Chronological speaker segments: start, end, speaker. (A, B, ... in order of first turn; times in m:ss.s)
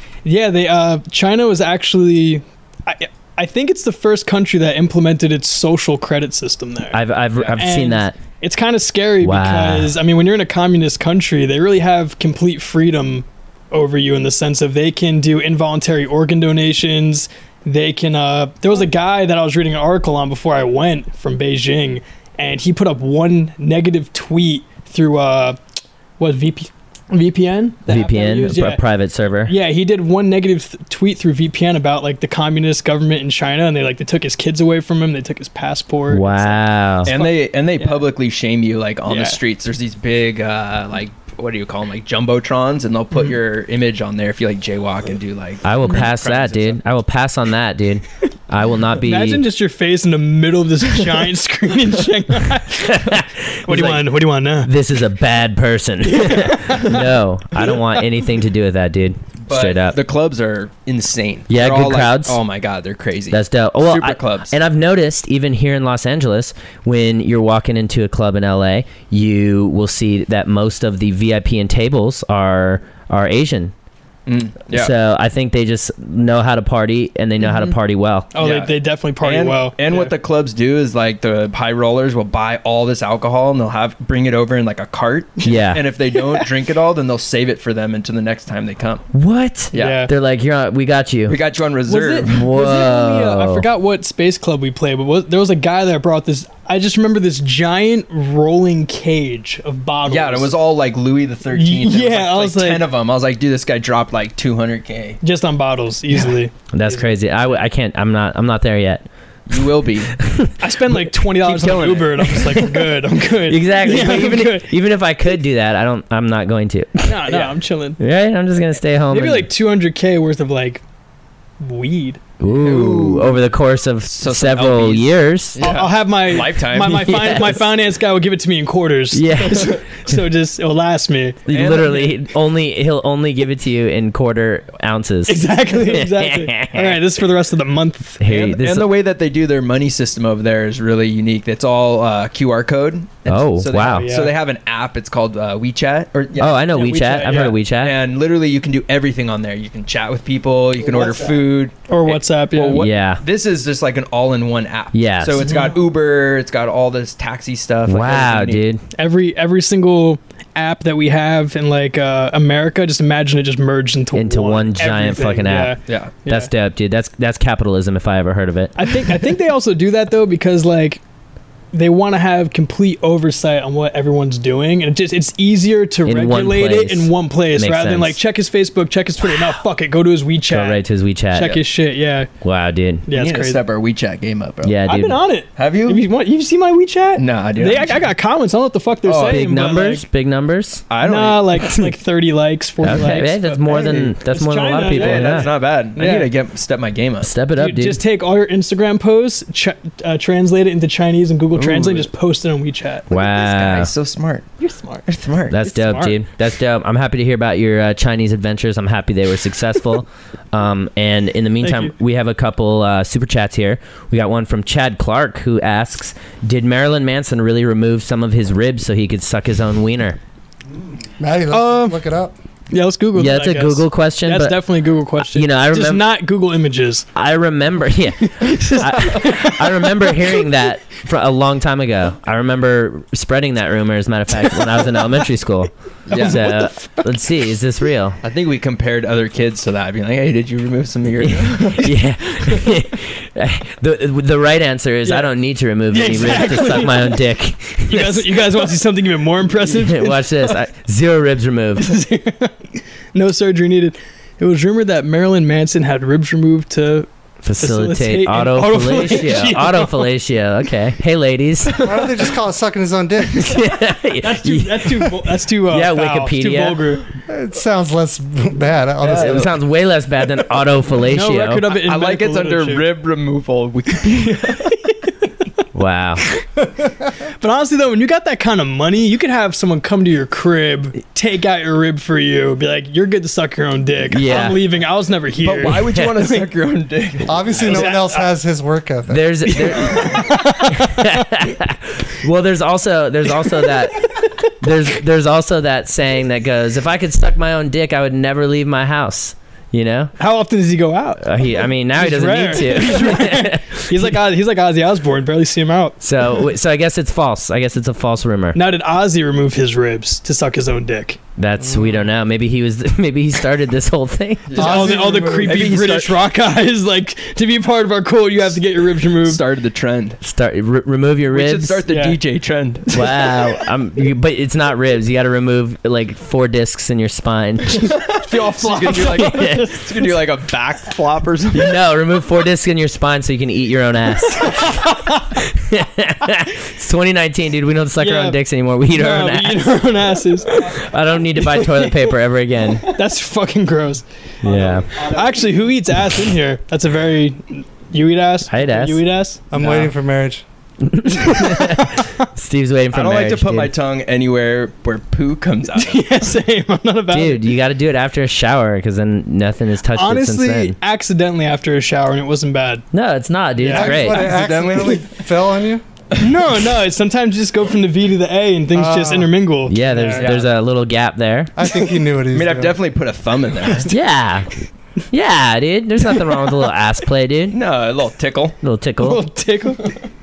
0:00.2-0:25.6 A
0:06.9-0:08.2 B
0:09.2-0:09.9 B
0:26.2-0:28.8 A
0:27.9-0:29.6 B
0:29.4-0:38.0 A
0:36.1-0:37.1 B
0:37.0-0:46.8 C
0:39.1-0:39.4 A
0:45.6-0:49.5 B
0:49.0-0:54.7 A
0:52.9-1:00.0 B
0:56.0-0:57.0 A
0:59.5-1:04.5 C
1:01.5-1:02.4 B
1:03.3-1:13.7 B
1:14.3-1:14.9 C
1:14.7-1:18.3 B
1:17.4-1:17.7 A
1:18.3-1:20.1 A
1:18.4-1:29.0 C
1:25.4-1:25.8 B
1:26.2-1:26.5 A
1:29.1-1:31.4 B
1:29.7-1:30.0 C
1:29.7-1:30.1 A
1:31.3-1:32.4 C
1:31.9-1:40.5 A
1:32.3-1:33.6 B
1:40.1-1:45.2 C
1:41.5-1:42.9 A
1:45.2-1:47.2 A
1:46.7-1:49.0 B
1:49.5-1:50.2 C
1:50.2-1:50.5 B
1:50.6-1:54.7 A
1:51.3-1:52.6 C
1:53.5-1:57.2 B
1:57.0-1:58.0 A
1:58.0-1:59.5 B
1:59.1-2:00.8 A
2:01.6-2:02.2 A
2:02.4-2:05.6 B
2:02.5-2:03.4 C
2:04.0-2:07.2 C
2:05.6-2:11.5 A
2:06.9-2:07.6 B
2:09.1-2:10.0 B
2:11.5-2:17.0 B
2:11.5-2:12.1 C
2:15.3-2:18.2 A
2:18.2-2:18.9 B
2:18.2-2:26.8 C
2:23.3-2:24.1 B
2:23.9-2:24.3 A
2:26.4-2:28.0 B
2:26.7-2:27.6 A
2:27.3-2:38.6 C
2:31.9-2:32.8 A
2:32.8-2:33.2 B
2:34.9-2:35.5 B
2:35.4-2:35.7 A
2:37.9-2:38.8 B
2:39.0-2:46.5 A
2:44.1-2:48.7 B
2:45.9-2:46.2 C
2:48.8-2:51.0 A
2:51.7-3:00.8 A
2:56.1-2:58.2 B
3:00.5-3:01.6 B
3:01.3-3:02.3 A
3:02.4-3:03.1 B
3:03.1-3:03.6 A
3:03.1-3:04.8 C
3:04.6-3:05.2 B
3:04.8-3:10.0 A
3:05.6-3:06.0 C
3:07.2-3:08.1 C
3:09.0-3:09.5 C
3:09.3-3:10.8 B
3:10.9-3:11.7 C
3:11.0-3:16.3 A
3:12.8-3:15.6 B
3:13.6-3:14.2 C
3:14.8-3:17.3 C
3:17.2-3:18.0 B
3:17.6-3:23.1 A
3:21.5-3:22.1 C
3:23.1-3:23.9 B
3:23.1-3:24.5 C
3:24.6-3:26.2 A
3:25.0-3:25.6 C
3:25.5-3:40.2 B
3:31.6-3:31.9 A
3:41.2-3:42.3 D
3:41.5-3:42.1 A
3:42.7-3:47.1 A
3:43.2-3:46.1 B
3:47.2-3:58.2 B
3:48.5-3:50.1 A
3:56.1-3:56.5 C
3:56.1-3:56.6 A
3:58.2-4:02.0 C
4:01.3-4:08.6 B
4:05.9-4:07.2 A
4:07.9-4:10.3 A
4:09.6-4:12.0 B
4:11.8-4:12.6 A
4:13.2-4:20.1 A
4:17.4-4:21.9 B
4:21.8-4:23.6 D
4:23.4-4:27.0 B
4:24.2-4:27.0 A
4:27.3-4:29.5 D
4:29.0-4:29.5 C
4:29.1-4:31.6 B
4:31.1-4:32.8 A
4:31.7-4:34.7 C
4:34.2-4:35.1 A
4:35.8-4:36.2 B
4:37.4-4:46.4 A
4:44.1-4:44.6 B
4:45.4-4:48.0 C
4:47.2-4:49.3 D
4:47.6-4:48.3 A
4:49.1-5:00.1 B
4:49.4-4:51.3 A
5:00.2-5:01.3 A
5:01.2-5:04.1 B
5:02.0-5:06.0 A
5:06.0-5:08.6 B
5:08.5-5:11.2 A
5:11.4-5:14.6 B
5:11.7-5:12.0 D
5:14.5-5:16.2 C
5:14.6-5:15.7 D
5:14.6-5:19.4 A
5:19.2-5:20.2 C
5:20.2-5:21.8 B
5:21.3-5:23.3 C
5:21.9-5:22.2 A
5:22.9-5:28.0 B
5:27.8-5:31.8 C
5:28.2-5:29.9 A
5:29.0-5:29.7 B
5:31.5-5:39.8 B
5:38.0-5:38.4 A
5:38.9-5:40.8 A
5:40.5-5:42.9 B
5:41.6-5:41.9 A
5:42.9-5:44.0 A
5:44.4-5:44.9 B
5:44.5-5:45.2 C
5:45.0-5:49.7 A
5:48.5-5:49.0 B
5:49.5-5:50.4 D
5:50.8-5:53.7 B
5:51.4-5:52.0 A
5:52.9-5:56.4 C
5:55.8-5:57.5 A
5:57.1-6:00.8 B
6:00.0-6:02.8 A
6:02.9-6:04.3 B
6:03.6-6:03.9 A
6:03.7-6:05.8 D
6:03.7-6:05.2 C
6:06.2-6:10.3 A
6:08.7-6:09.3 D
6:09.7-6:11.5 B
6:10.2-6:10.5 C
6:11.6-6:12.8 D
6:12.3-6:13.9 C
6:13.9-6:14.5 B
6:15.1-6:17.6 B
6:17.5-6:18.6 C
6:18.6-6:19.3 B
6:19.0-6:20.0 A